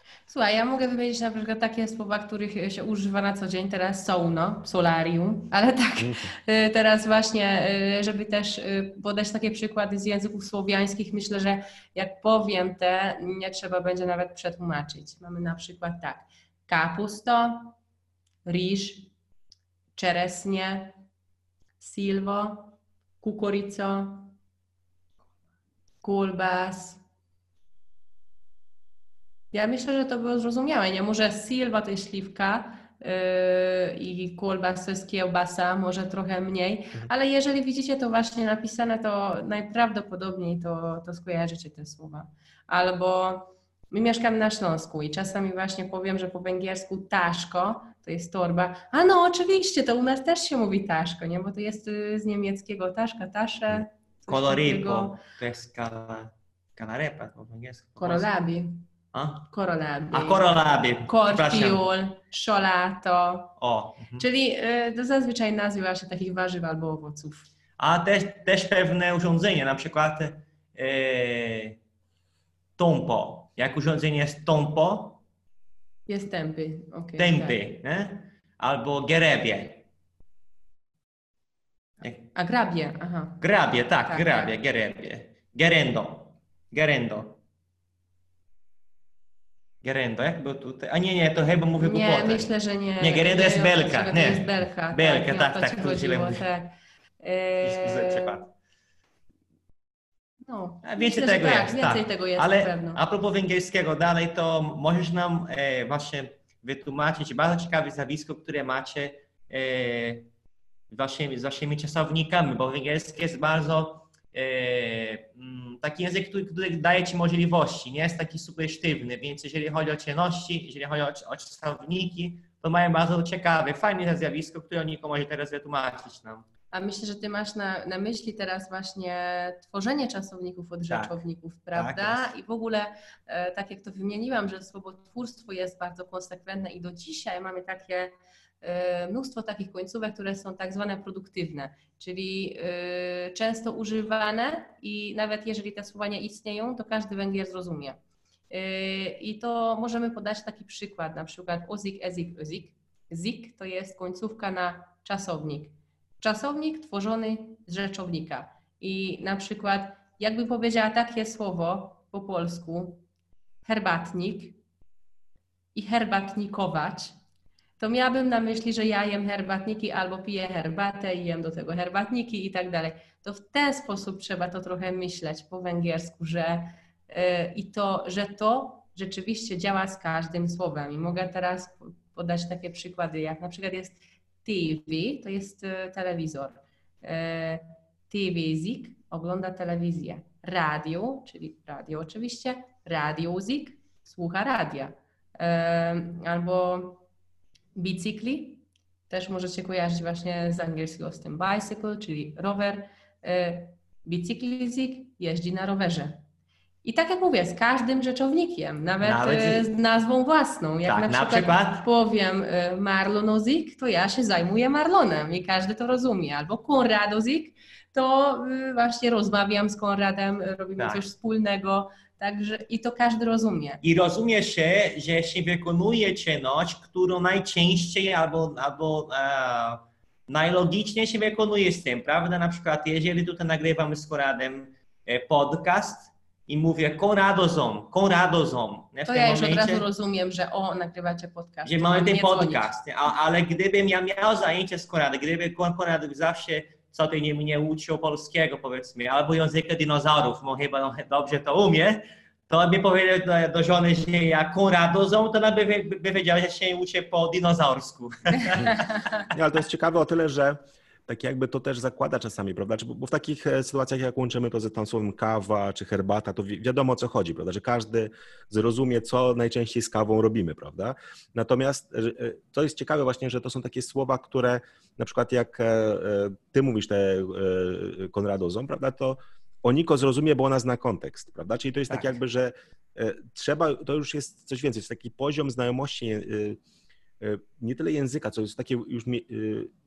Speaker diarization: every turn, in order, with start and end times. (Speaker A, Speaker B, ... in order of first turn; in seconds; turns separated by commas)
Speaker A: 0.3-17.8, Speaker B: 6.0-6.3, Speaker A: 18.4-19.1, Speaker A: 19.9-21.0, Speaker A: 21.8-24.3, Speaker A: 26.0-27.0, Speaker A: 29.5-55.2, Speaker C: 54.3-58.3, Speaker A: 58.0-58.9, Speaker C: 59.1-59.5, Speaker A: 59.5-63.6, Speaker C: 60.1-61.9, Speaker C: 63.6-64.2, Speaker A: 64.2-67.5, Speaker C: 67.8-71.8, Speaker C: 72.8-75.2, Speaker A: 76.1-77.6, Speaker C: 77.2-79.8, Speaker A: 82.3-83.5, Speaker C: 83.4-87.4, Speaker A: 84.1-84.5, Speaker C: 89.8-92.5, Speaker A: 91.8-98.4, Speaker C: 93.0-96.5, Speaker C: 97.6-98.4, Speaker A: 100.5-103.0, Speaker C: 100.8-110.3, Speaker C: 110.9-126.5, Speaker A: 126.7-148.0, Speaker C: 130.9-131.2, Speaker C: 131.7-132.3, Speaker A: 148.5-163.0, Speaker A: 163.7-164.6, Speaker A: 165.8-167.2, Speaker A: 167.8-197.0, Speaker A: 197.8-206.2, Speaker A: 206.8-223.8, Speaker C: 209.0-209.7, Speaker C: 210.9-211.9, Speaker C: 220.8-221.1, Speaker C: 223.8-239.8, Speaker A: 239.1-242.7, Speaker C: 241.7-258.9, Speaker B: 259.3-286.6, Speaker B: 287.2-289.7